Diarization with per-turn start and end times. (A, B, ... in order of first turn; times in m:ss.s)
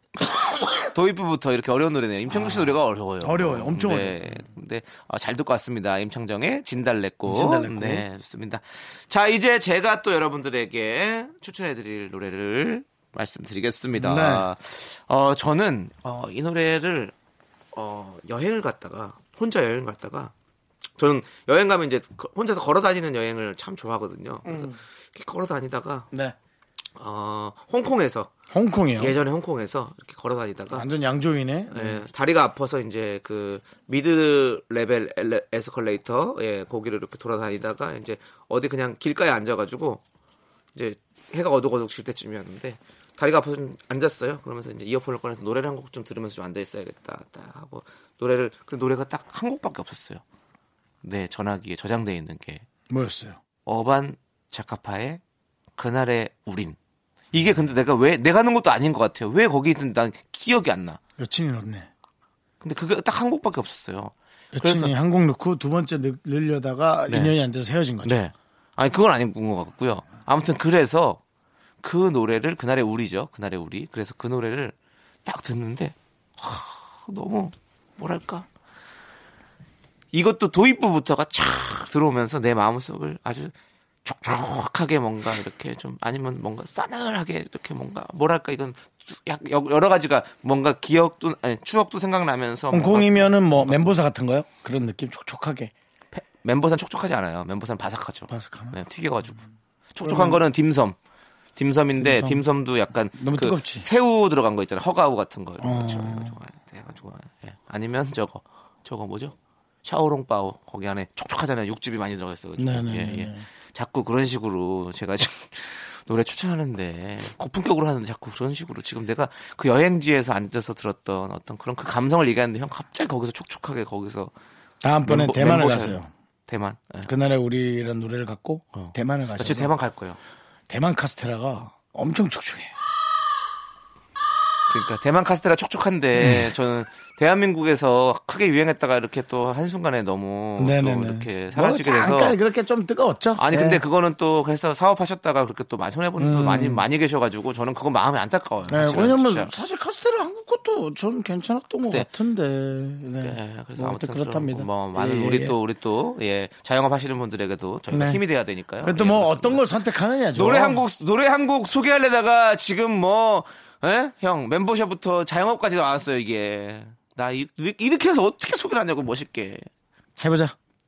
0:00.9-0:17.1 A
0:02.3-0:04.4 B
0:07.3-0:08.0 B
0:13.9-0:14.5 B
0:17.7-0:20.3 A
0:21.0-0:26.1 A
0:24.4-0:24.7 B
0:27.0-0:28.3 A
0:28.5-0:29.2 B
0:29.0-0:30.8 A
0:30.7-0:32.0 B
0:31.7-0:40.0 A
0:40.7-0:50.2 A
0:51.0-0:52.6 A
0:52.9-0:53.4 B
0:53.6-0:55.2 A
0:55.8-0:56.8 A
0:57.3-1:01.0 A
1:01.2-1:01.9 B
1:02.6-1:04.9 A
1:04.5-1:08.2 B
1:07.1-1:07.3 A
1:08.0-1:11.2 A
1:11.8-1:18.5 A
1:20.1-1:23.5 A
1:24.0-1:34.0 A
1:32.7-1:35.7 B
1:36.1-1:39.4 A
1:38.3-1:38.8 B
1:39.9-1:41.0 A
1:40.0-1:40.4 B
1:41.6-2:04.3 A
1:42.0-1:42.4 B
1:43.1-1:43.8 B
1:45.6-1:46.3 B
1:52.6-1:53.4 B
2:04.8-2:06.1 B
2:05.0-2:07.1 A
2:07.0-2:09.7 B
2:08.8-2:10.2 A
2:10.7-2:12.7 B
2:14.7-2:22.4 A
2:16.2-2:16.5 B
2:20.6-2:23.8 B
2:23.4-2:29.5 A
2:26.2-2:26.8 B
2:28.7-2:35.6 B
2:33.2-2:39.6 A
2:37.9-2:38.2 B
2:38.8-2:40.8 B
2:40.3-2:49.7 A
2:50.2-2:50.5 B